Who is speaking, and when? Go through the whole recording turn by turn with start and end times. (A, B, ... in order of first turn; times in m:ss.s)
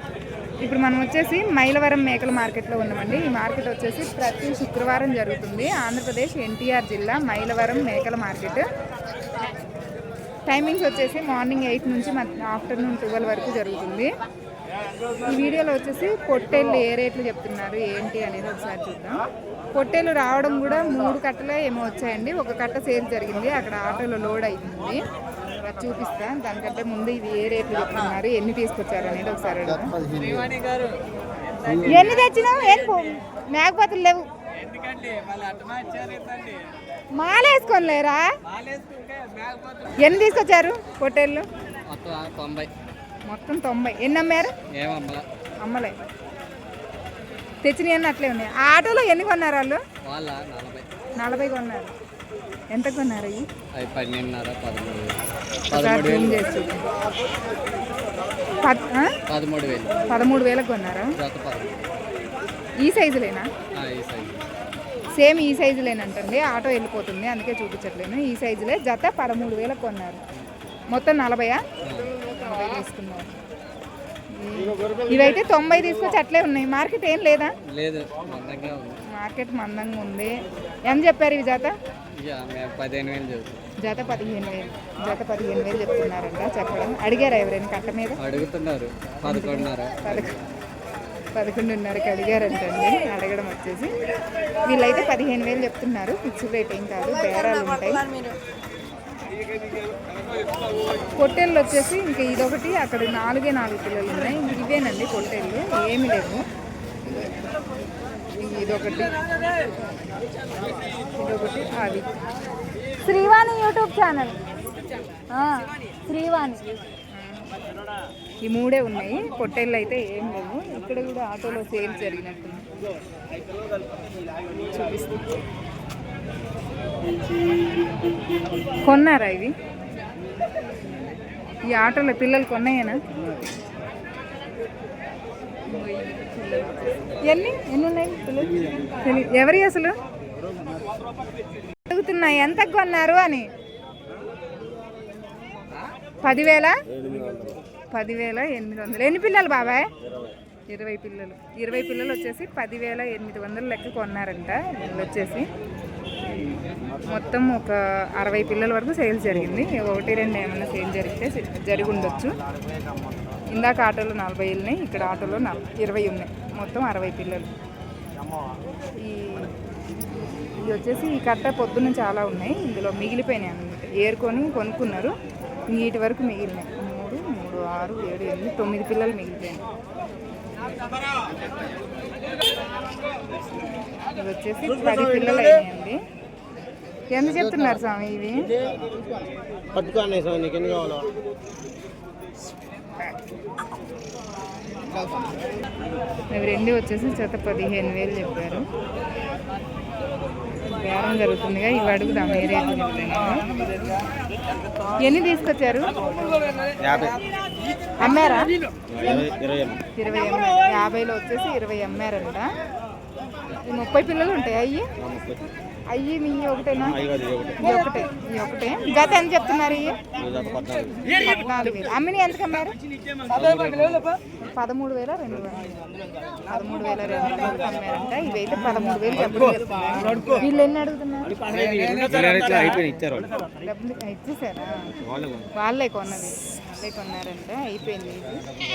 0:00.6-0:08.7 A
0:10.5-0:14.1 A
0:15.2-0:19.2 A
0:19.7-0:25.0 A
0:25.6-0:30.0 A
0:30.1-0:31.0 B
0:31.8-0:34.3 A
0:34.6-0:36.6 B
0:37.1-0:38.3 A
0:38.6-0:39.6 B
0:40.0-0:41.5 A
0:41.9-0:42.7 B
0:43.3-0:44.5 A
0:44.7-0:45.2 B
0:45.6-0:46.0 A
0:47.6-0:49.8 A
0:50.0-0:50.9 B
0:51.2-0:52.0 A
0:52.7-0:53.4 A
0:53.7-0:56.5 B
0:55.7-0:56.8 A
0:58.6-0:59.2 A
0:59.3-1:00.1 B
1:00.1-1:01.1 A
1:01.2-1:01.9 B
1:02.8-1:03.5 A
1:03.8-1:04.4 B
1:05.2-1:10.2 A
1:10.9-1:11.6 A
1:11.8-1:12.2 B
1:12.3-1:13.3 A
1:14.3-1:17.6 A
1:17.7-1:19.0 B
1:19.1-1:20.3 A
1:20.9-1:21.7 A
1:22.2-1:23.6 B
1:23.8-1:28.2 A
1:28.2-1:30.3 B
1:29.3-1:30.3 A
1:31.4-1:33.9 A
1:34.6-1:38.1 A
1:41.2-1:46.4 A
1:48.4-1:49.2 A
1:51.2-1:52.2 A
1:53.0-1:54.4 A
1:55.3-1:57.5 A
1:58.4-2:02.7 A
2:04.6-2:05.3 A
2:08.8-2:09.5 A
2:11.7-2:13.0 A
2:15.7-2:20.0 A
2:21.9-2:23.5 A
2:26.2-2:26.8 A
2:27.0-2:27.6 C
2:27.9-2:29.9 A
2:30.7-2:35.5 A
2:37.0-2:42.4 A
2:43.5-2:47.5 A
2:49.0-2:49.5 A
2:50.6-2:55.2 A
2:55.7-2:59.6 A
3:04.0-3:06.0 A
3:07.1-3:08.5 A
3:09.7-3:11.1 C
3:16.3-3:18.7 A
3:20.6-3:23.6 A
3:25.0-3:25.9 A
3:26.8-3:27.2 C
3:28.0-3:28.5 A
3:28.9-3:29.8 C
3:30.0-3:32.5 A
3:33.6-3:34.9 A
3:35.0-3:35.5 C
3:35.9-3:37.0 A
3:36.9-3:37.6 C
3:37.6-3:40.0 A
3:40.2-3:41.0 C
3:41.2-3:42.8 A
3:43.3-3:44.1 C
3:44.4-3:45.8 A
3:46.5-3:51.4 A
3:51.7-3:53.3 C
3:53.6-3:54.9 A
3:55.1-3:55.5 C
3:55.6-3:58.4 A